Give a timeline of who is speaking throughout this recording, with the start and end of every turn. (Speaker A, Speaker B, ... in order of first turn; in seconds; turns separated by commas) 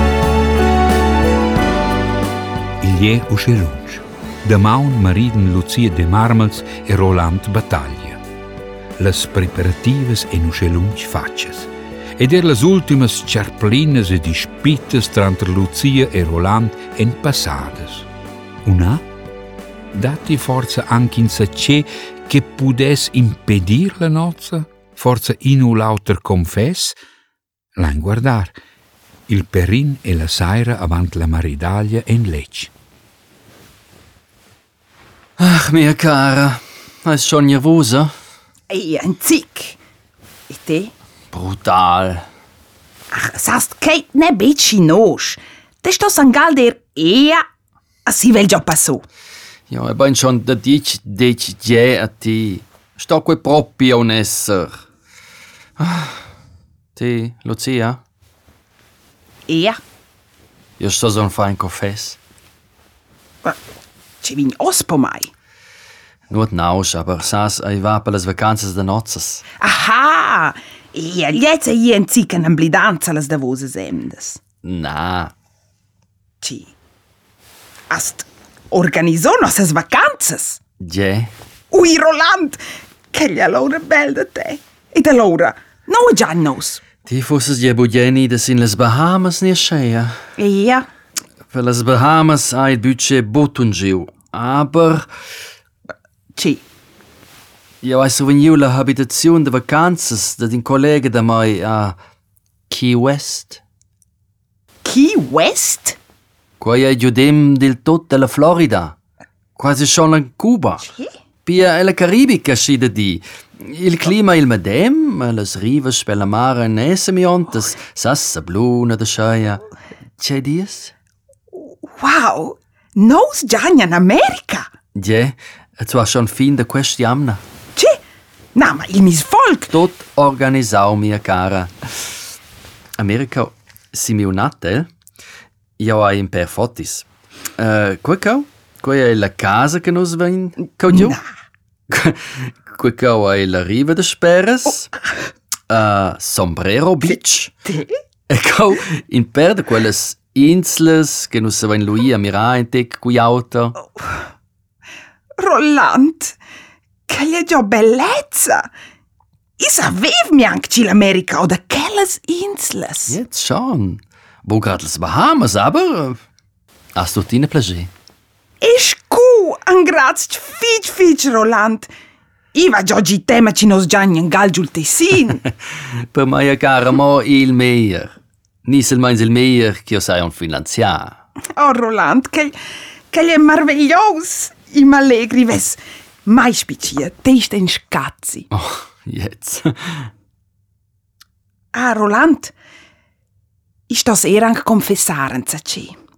Speaker A: 2.8-8.2, Speaker A: 9.0-18.1, Speaker A: 18.6-19.0, Speaker A: 19.9-27.0, Speaker A: 27.8-28.6, Speaker A: 29.3-32.7, Speaker B: 35.4-38.1, Speaker C: 38.7-39.8, Speaker C: 40.5-40.9, Speaker B: 41.3-42.2, Speaker C: 43.1-47.4, Speaker C: 48.0-49.0, Speaker B: 49.7-54.8, Speaker B: 55.8-56.2, Speaker B: 57.0-58.0, Speaker C: 59.5-59.8, Speaker B: 60.8-62.2, Speaker C: 64.2-65.3, Speaker B: 66.3-69.4, Speaker C: 69.6-74.4, Speaker B: 74.6-75.3, Speaker C: 76.4-76.7, Speaker C: 77.9-80.6, Speaker B: 80.8-81.3, Speaker C: 81.7-82.6, Speaker C: 83.1-86.8, Speaker B: 87.0-90.1, Speaker C: 90.4-90.8, Speaker B: 91.5-95.0, Speaker C: 96.3-96.6, Speaker B: 97.8-101.9, Speaker B: 102.7-103.6, Speaker C: 104.8-106.0, Speaker B: 106.6-108.9, Speaker B: 109.5-110.9, Speaker B: 111.4-119.6, Speaker B: 120.2-120.9, Speaker C: 121.5-124.7, Speaker B: 124.9-127.4, Speaker C: 128.5-129.7, Speaker B: 129.7-131.7, Speaker B: 133.0-134.9, Speaker B: 135.8-137.1, Speaker B: 137.6-141.2, Speaker B: 141.9-144.9, Speaker B: 145.7-147.6, Speaker B: 148.3-153.8, Speaker C: 155.4-156.3, Speaker C: 157.1-158.7, Speaker C: 159.6-163.2, Speaker B: 163.1-166.2, Speaker B: 166.9-167.9, Speaker C: 168.6-171.9, Speaker C: 172.5-175.4, Speaker B: 176.1-178.1, Speaker B: 178.6-181.2, Speaker C: 181.6-182.5, Speaker C: 183.1-188.4, Speaker B: 188.5-190.1, Speaker C: 191.7-192.5, Speaker C: 193.9-195.9